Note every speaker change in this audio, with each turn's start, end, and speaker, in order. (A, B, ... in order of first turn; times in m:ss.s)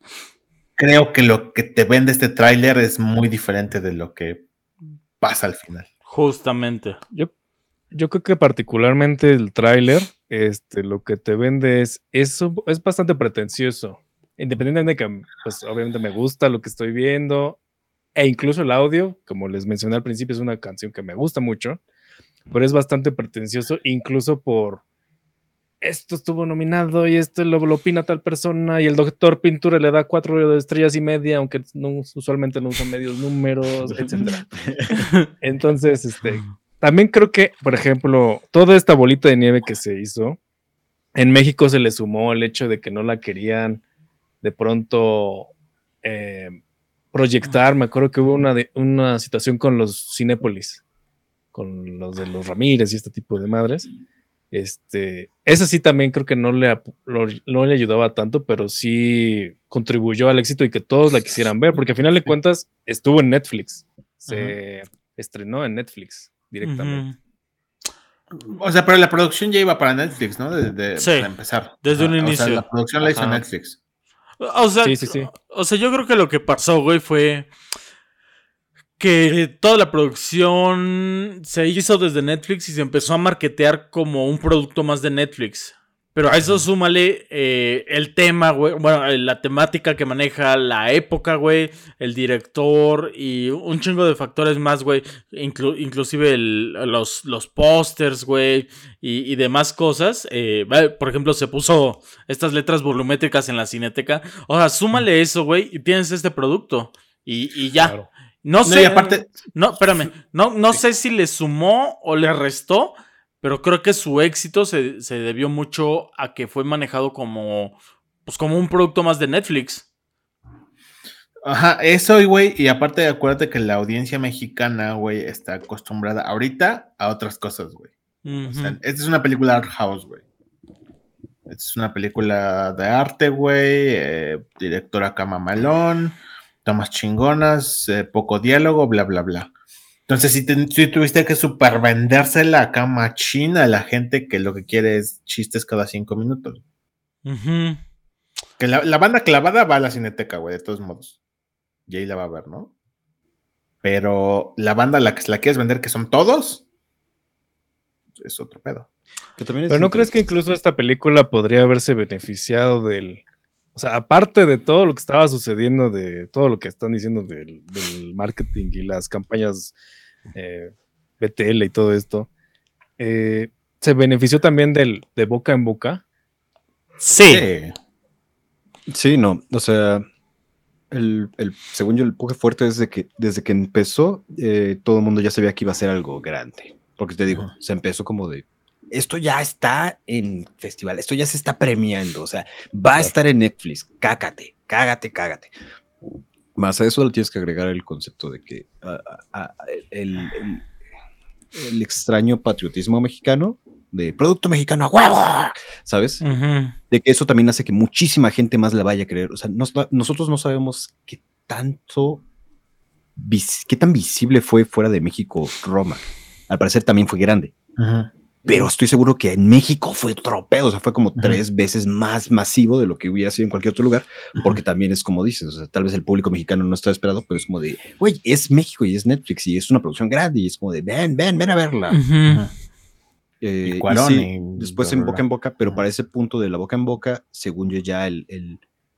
0:00.8-0:04.4 A
0:05.2-0:05.9 A
0:06.1-0:07.0 B
0:07.9-0:17.6 C
0:18.2-0:21.8 C
0:22.5-0:24.8 C
0:25.8-0:34.4 C
0:33.8-0:35.1 D
0:35.4-0:40.4 C
0:41.2-0:43.8 C
0:44.4-0:45.5 C
0:46.0-0:46.6 C
0:47.1-0:50.8 C
0:51.5-0:53.9 C
0:54.5-1:07.1 C
1:04.3-1:04.6 A
1:06.6-1:07.2 B
1:08.6-1:13.8 A
1:11.0-1:11.3 B
1:11.8-1:12.6 B
1:13.0-1:13.4 C
1:14.4-1:17.5 B
1:14.8-1:15.3 C
1:19.0-1:59.8 B
1:47.8-1:48.1 C
1:48.6-1:49.4 A
2:01.4-2:07.9 A
2:08.2-2:08.8 B
2:08.5-2:10.2 A
2:11.5-2:19.5 A
2:20.1-2:26.6 A
2:27.2-2:27.8 B
2:28.6-2:31.2 A
2:31.9-2:32.7 A
2:33.8-2:36.6 A
2:38.2-2:38.9 A
2:39.4-2:40.3 D
2:39.7-2:43.2 C
2:43.8-2:49.8 C
2:50.3-2:52.3 C
2:53.0-2:56.0 C
2:57.0-2:57.5 B
2:57.2-2:57.8 A
2:58.9-3:00.1 D
3:00.9-3:15.5 D
3:16.6-3:20.6 D
3:21.5-3:26.2 D
3:26.2-3:26.8 B
3:26.9-3:32.2 D
3:33.2-3:37.5 D
3:37.8-3:38.7 A
3:38.5-3:52.0 D
3:51.9-3:52.4 B
3:53.4-3:58.6 D
3:53.6-3:55.8 A